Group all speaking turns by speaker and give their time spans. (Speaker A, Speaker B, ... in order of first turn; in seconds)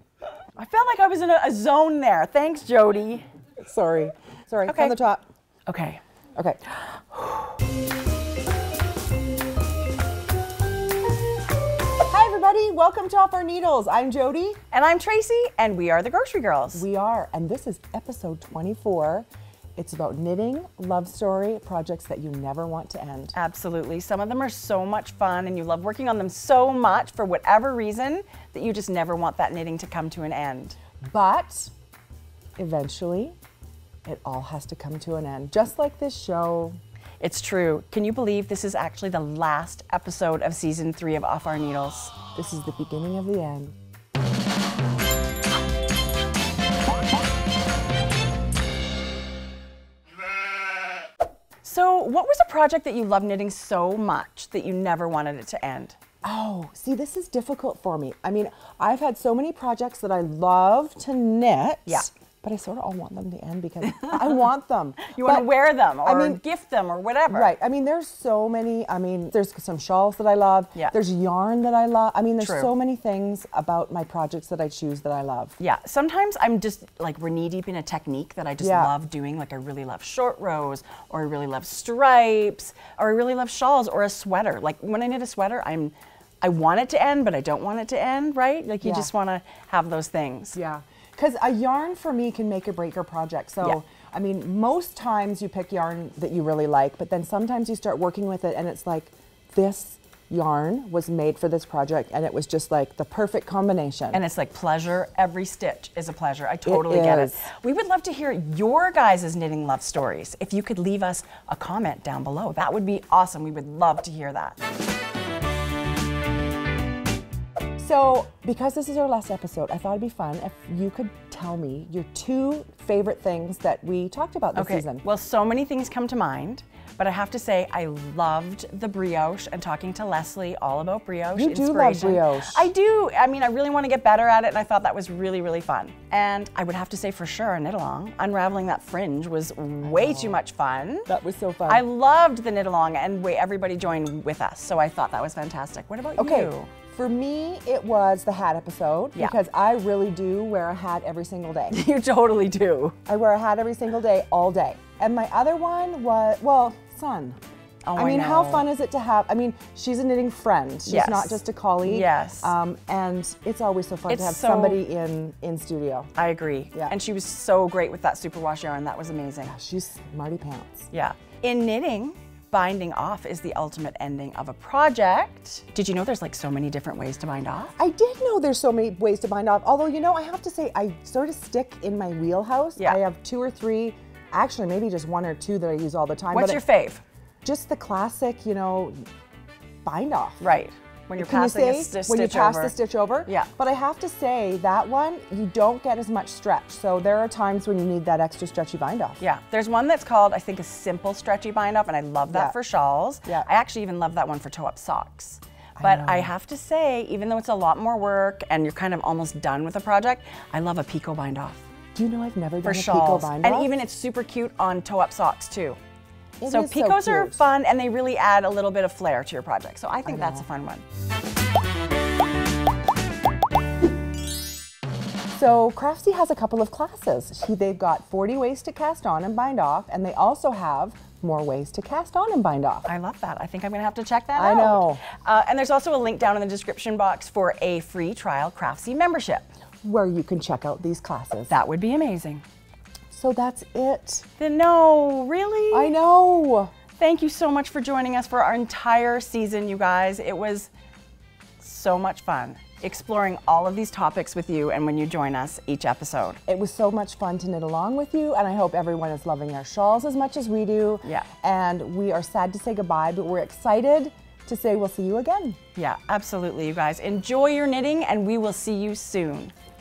Speaker A: 0.6-3.3, 4.7-5.0, 5.7-6.0, 6.9-7.3, 14.7-16.8, 23.3-30.8, 37.2-42.1, 51.6-56.0, 65.0-67.5, 72.4-72.7, 75.6-90.6, 104.1-114.6, 124.5-141.1, 141.7-146.7, 151.7-153.0, 157.9-158.7, 160.9-162.5, 164.1-164.8, 166.2-169.6, 170.9-177.7, 186.3-187.0, 190.4-193.5, 199.2-211.7, 212.6-215.8, 216.5-220.8, 232.9-239.5, 241.5-242.4, 244.4-245.9, 247.0-250.7, 251.6-256.4, 265.8-269.5
Speaker B: 3.6-5.2, 12.1-14.6, 16.7-23.4, 31.1-31.7, 32.6-33.4, 34.0-36.8, 42.4-43.8, 56.2-66.4, 67.3-75.6, 78.6-79.0, 88.8-89.1, 90.5-104.2, 106.7-107.4, 117.8-125.0, 131.3-132.7, 139.8-140.4, 141.1-141.8, 146.2-151.8, 153.1-157.4, 158.0-166.1, 169.4-170.9, 177.8-186.6, 187.4-189.0, 189.8-190.4, 191.2-199.2, 202.3-202.6, 205.8-206.3, 211.9-213.7, 216.4-217.4, 220.1-220.5, 225.3-232.9, 234.3-235.0, 239.8-241.5, 243.1-244.3, 245.7-246.7, 256.5-265.6